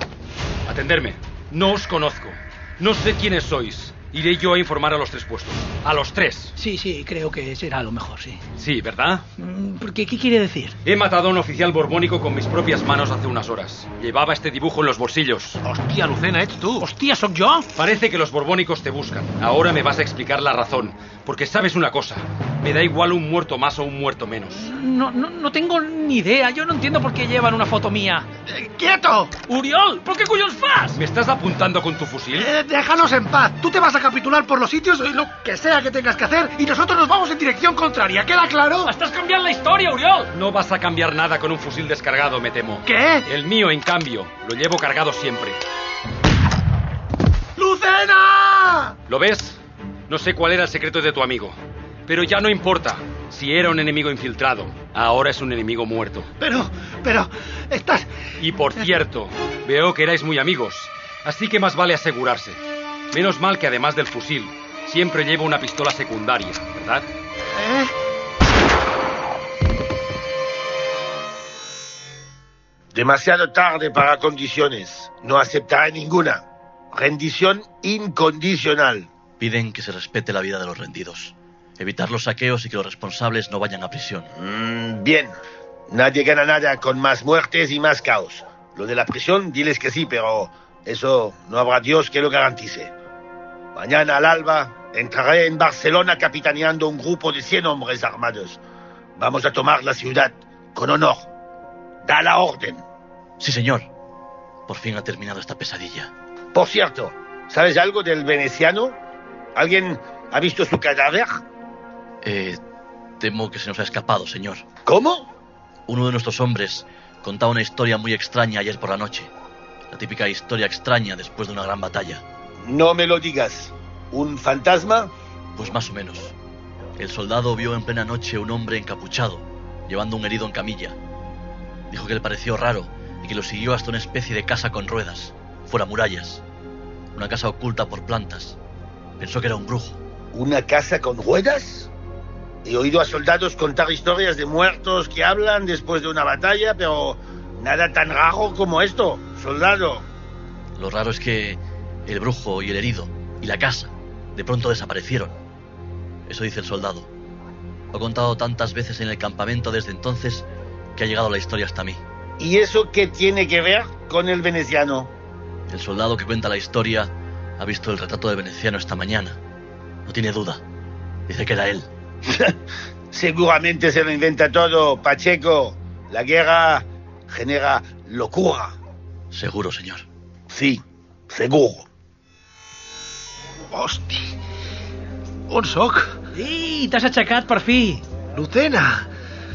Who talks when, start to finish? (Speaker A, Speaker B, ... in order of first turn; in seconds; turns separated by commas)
Speaker A: 0.7-6.5, Speaker B: 6.6-8.4, Speaker A: 8.6-9.2, Speaker B: 9.4-10.8, Speaker A: 10.8-15.6, Speaker C: 15.6-16.9, Speaker B: 16.8-17.7, Speaker A: 17.8-24.6, Speaker B: 24.5-28.3, Speaker C: 28.5-29.3, Speaker B: 29.5-31.0, Speaker A: 30.9-32.5, Speaker C: 32.3-38.9, Speaker B: 38.8-40.3, Speaker A: 40.3-45.6, Speaker C: 42.8-43.3, Speaker C: 47.6-48.9, Speaker A: 49.1-49.6, Speaker A: 50.1-56.3, Speaker C: 56.4-58.1, Speaker A: 58.4-62.6, Speaker A: 63.1-67.0, Speaker C: 67.5-67.9, Speaker D: 72.9-79.1, Speaker E: 79.4-84.3, Speaker D: 84.4-85.3, Speaker D: 85.9-92.9, Speaker D: 93.7-98.6, Speaker D: 99.2-101.3, Speaker D: 102.0-102.8, Speaker E: 103.4-103.8, Speaker E: 104.7-106.1, Speaker D: 106.5-109.0, Speaker D: 109.5-111.4, Speaker E: 112.2-112.6, Speaker E: 113.2-114.6, Speaker D: 114.8-115.3, Speaker E: 115.9-119.3, Speaker E: 119.9-122.2, Speaker D: 122.7-125.1, Speaker E: 125.5-126.3, Speaker E: 127.0-130.9, Speaker E: 131.9-136.4, Speaker E: 137.1-138.6, Speaker E: 139.2-140.0, Speaker D: 140.3-141.9, Speaker D: 142.6-150.0, Speaker E: 150.8-155.3, Speaker E: 156.3-157.1, Speaker E: 157.9-160.4, Speaker E: 160.9-162.0, Speaker D: 162.4-165.1, Speaker E: 165.7-169.4, Speaker E: 170.1-170.6, Speaker E: 171.3-171.8, Speaker D: 172.3-172.5, Speaker D: 173.1-178.7, Speaker E: 179.3-180.0, Speaker D: 180.5-181.8, Speaker C: 183.7-184.3, Speaker C: 185.5-186.2, Speaker B: 186.3-188.0, Speaker C: 188.3-189.1